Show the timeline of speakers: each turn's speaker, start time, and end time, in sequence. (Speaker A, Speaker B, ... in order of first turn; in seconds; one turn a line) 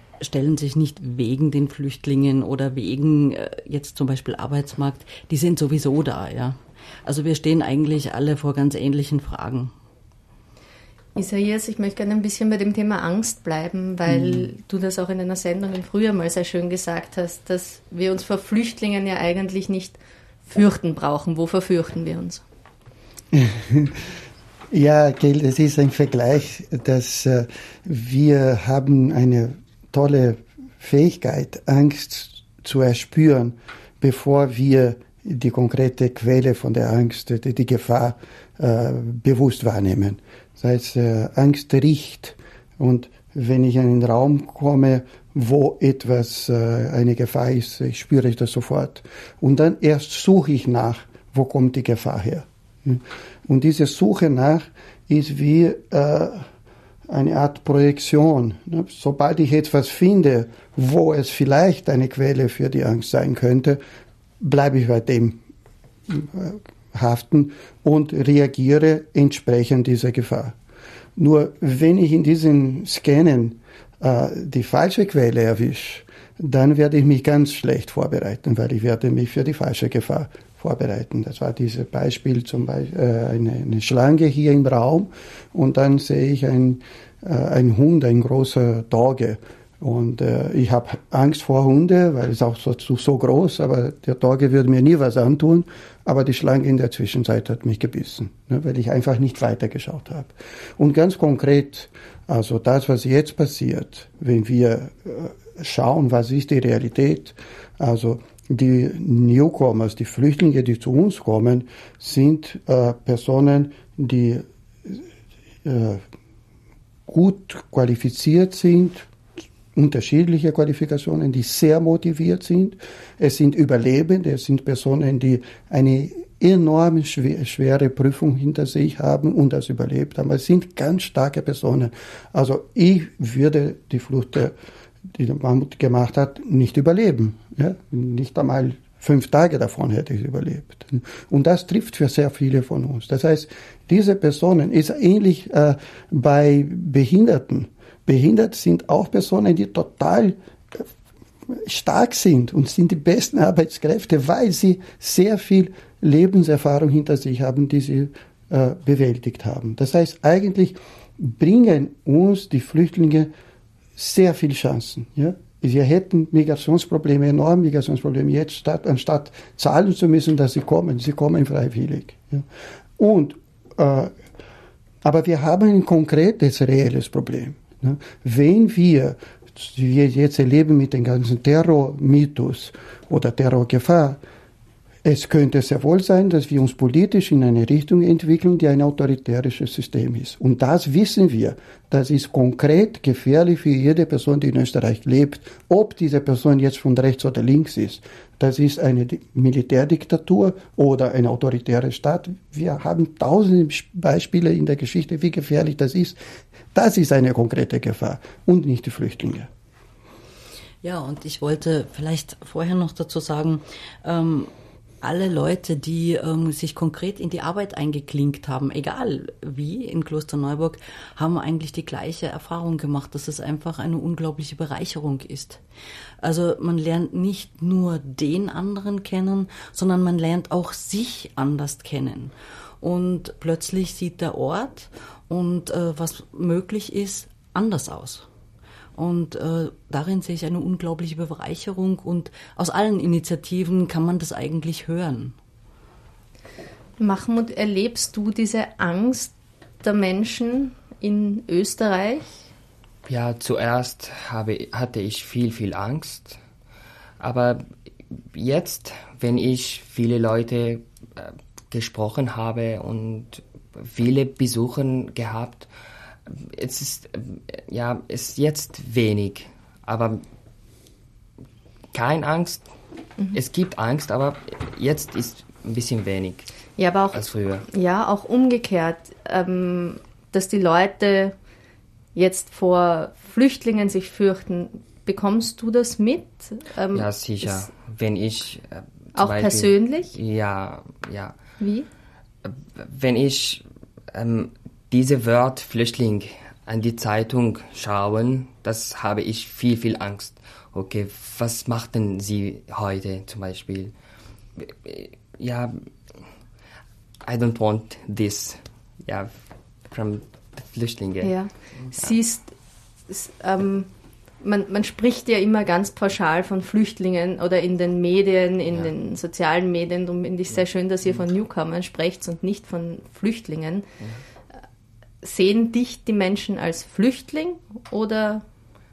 Speaker A: 0.2-9.7
Speaker B: 11.2-22.4
Speaker C: 23.3-24.1
Speaker C: 24.7-56.5
Speaker C: 57.1-63.8
Speaker C: 64.4-65.4
Speaker C: 66.1-70.5
Speaker C: 71.2-115.0
Speaker C: 115.6-116.0
Speaker C: 117.1-119.1
Speaker C: 119.7-134.5
Speaker C: 135.1-150.8
Speaker C: 151.5-163.3
Speaker C: 163.9-172.4
Speaker C: 173.0-174.2
Speaker C: 175.0-184.2
Speaker C: 185.0-206.2
Speaker C: 206.7-209.5
Speaker A: 210.8-214.5
Speaker A: 215.0-225.6
Speaker A: 226.2-238.2
Speaker A: 238.9-245.3
Speaker B: 247.0-252.4
Speaker D: 253.1-256.4
Speaker D: 257.2-257.7
Speaker D: 258.3-265.7
Speaker D: 266.2-270.2
Speaker D: 271.9-272.7
Speaker D: 273.3-276.5
Speaker B: 276.8-277.2
Speaker D: 277.1-277.6
Speaker B: 277.7-281.3
Speaker B: 282.1-287.7
Speaker D: 286.9-291.4
Speaker B: 289.2-290.1
Speaker B: 291.6-291.9
Speaker D: 292.4-303.9
Speaker D: 304.6-305.9
Speaker D: 307.2-309.3
Speaker D: 309.9-311.3
Speaker B: 311.2-312.5
Speaker B: 313.1-313.9
Speaker B: 314.4-323.9
Speaker B: 325.2-328.4